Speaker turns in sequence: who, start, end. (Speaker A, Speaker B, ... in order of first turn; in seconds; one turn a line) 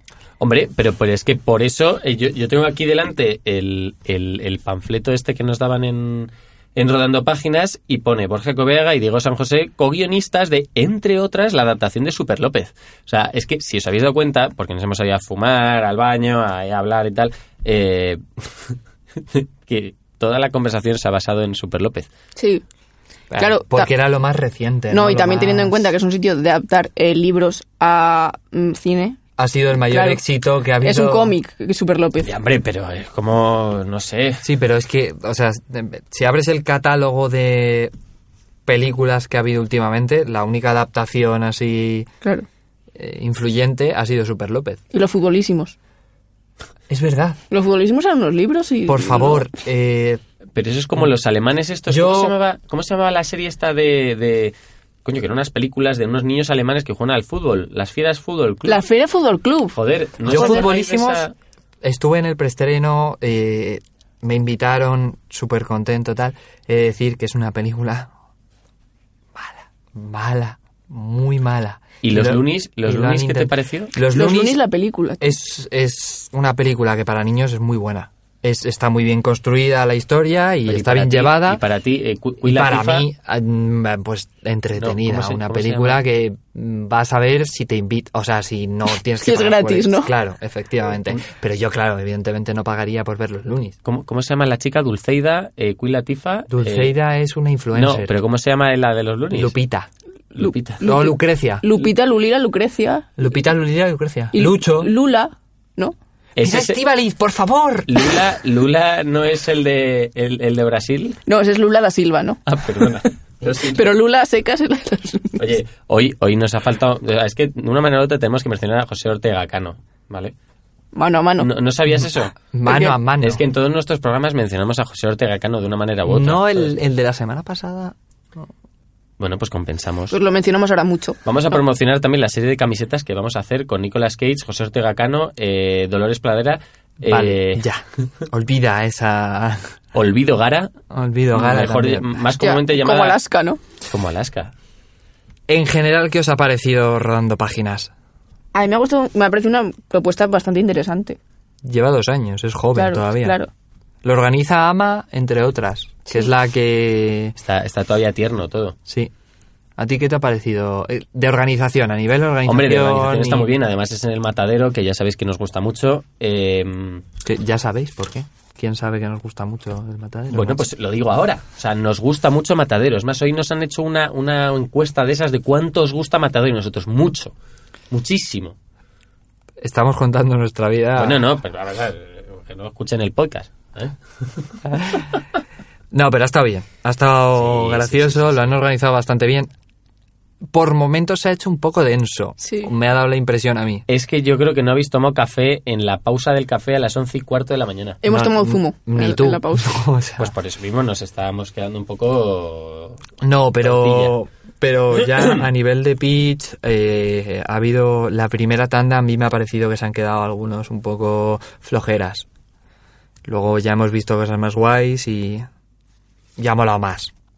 Speaker A: 0.4-18.8
Speaker A: 19.3-22.1
Speaker B: 22.4-22.6
Speaker C: 23.3-25.9
Speaker B: 23.3-23.9
Speaker B: 24.9-29.2
Speaker C: 29.4-31.3
Speaker B: 29.9-30.2
Speaker B: 30.8-32.3
Speaker A: 32.2-34.5
Speaker C: 34.4-37.9
Speaker C: 38.6-42.1
Speaker C: 42.9-44.8
Speaker B: 44.9-45.8
Speaker C: 46.9-47.4
Speaker B: 47.5-49.5
Speaker C: 48.9-50.2
Speaker A: 50.5-54.5
Speaker C: 51.9-52.4
Speaker A: 55.0-58.8
Speaker B: 58.7-59.7
Speaker A: 59.7-61.3
Speaker C: 60.2-61.2
Speaker C: 61.8-68.1
Speaker C: 69.3-74.6
Speaker A: 72.0-73.9
Speaker B: 74.1-75.2
Speaker C: 75.2-81.6
Speaker A: 80.7-83.1
Speaker C: 82.4-93.7
Speaker A: 84.8-86.0
Speaker B: 89.2-90.1
Speaker A: 93.8-96.9
Speaker C: 96.5-98.1
Speaker A: 97.7-99.5
Speaker C: 99.3-99.9
Speaker A: 100.3-100.8
Speaker B: 100.3-103.1
Speaker C: 100.8-101.7
Speaker C: 103.2-104.9
Speaker B: 104.3-105.9
Speaker A: 106.3-106.8
Speaker C: 106.4-108.0
Speaker A: 107.9-111.2
Speaker B: 111.2-112.4
Speaker A: 112.5-113.8
Speaker B: 113.6-115.6
Speaker A: 115.4-120.3
Speaker B: 120.9-121.5
Speaker A: 121.4-122.3
Speaker C: 121.9-123.4
Speaker B: 122.7-123.0
Speaker A: 123.2-126.7
Speaker C: 126.0-128.5
Speaker A: 129.2-130.2
Speaker B: 130.1-131.2
Speaker A: 131.2-137.6
Speaker C: 137.0-139.7
Speaker A: 139.9-140.7
Speaker C: 140.9-142.2
Speaker A: 141.3-143.2
Speaker B: 142.4-143.6
Speaker A: 143.8-144.5
Speaker C: 145.5-147.9
Speaker B: 148.5-151.2
Speaker C: 151.6-153.4
Speaker B: 152.8-153.5
Speaker C: 154.0-157.3
Speaker A: 157.4-158.8
Speaker C: 158.9-159.1
Speaker C: 159.8-163.5
Speaker A: 162.4-167.0
Speaker C: 167.2-170.6
Speaker A: 170.3-177.3
Speaker A: 177.9-178.5
Speaker C: 179.6-181.2
Speaker A: 181.0-184.6
Speaker C: 185.9-189.5
Speaker A: 187.3-188.5
Speaker C: 190.5-193.8
Speaker B: 192.4-192.7
Speaker A: 193.9-198.0
Speaker B: 198.0-199.8
Speaker C: 198.0-200.3
Speaker A: 200.2-203.0
Speaker C: 203.2-212.2
Speaker A: 203.6-204.1
Speaker A: 205.0-205.4
Speaker C: 213.2-215.4
Speaker C: 216.4-217.1